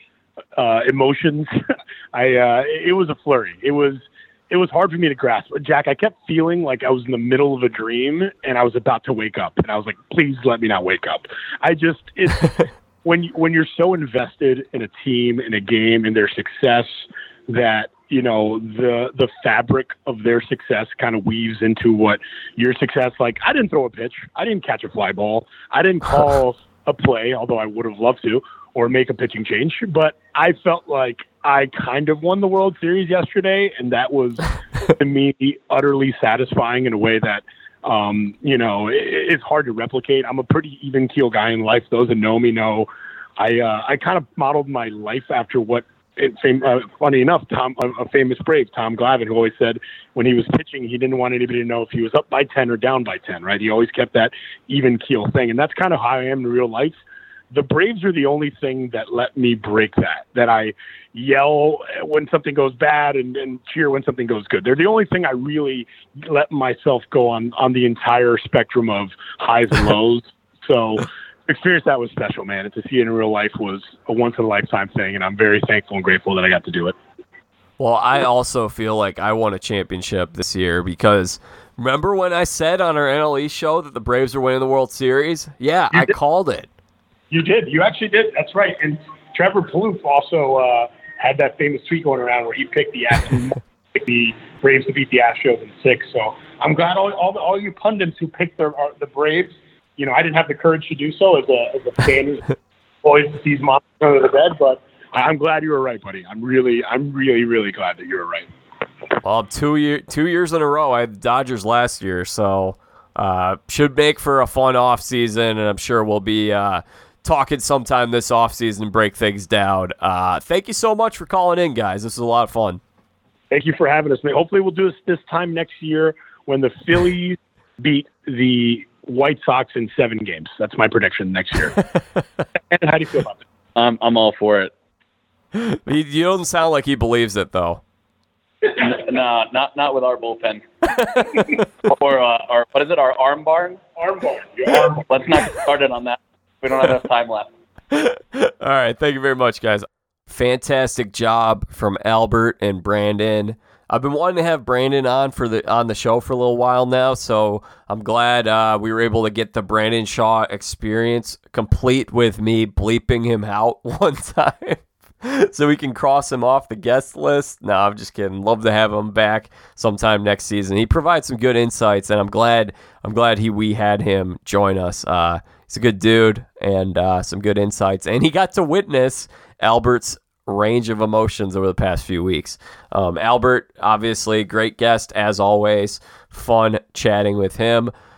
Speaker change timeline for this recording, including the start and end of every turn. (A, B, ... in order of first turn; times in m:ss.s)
0:00.6-0:01.5 A
0:02.1-0:56.9 A
0:57.5-1:16.9 A
1:17.8-1:26.7 B
1:27.3-1:48.5 A
1:49.2-2:02.8 B
2:03.5-2:11.8 A
2:12.7-2:13.4 A
2:13.8-2:14.7 C
2:15.5-2:17.8 B
2:18.6-2:23.8 C
2:24.0-2:25.0 A
2:24.9-2:27.5 C
2:27.9-3:07.9 B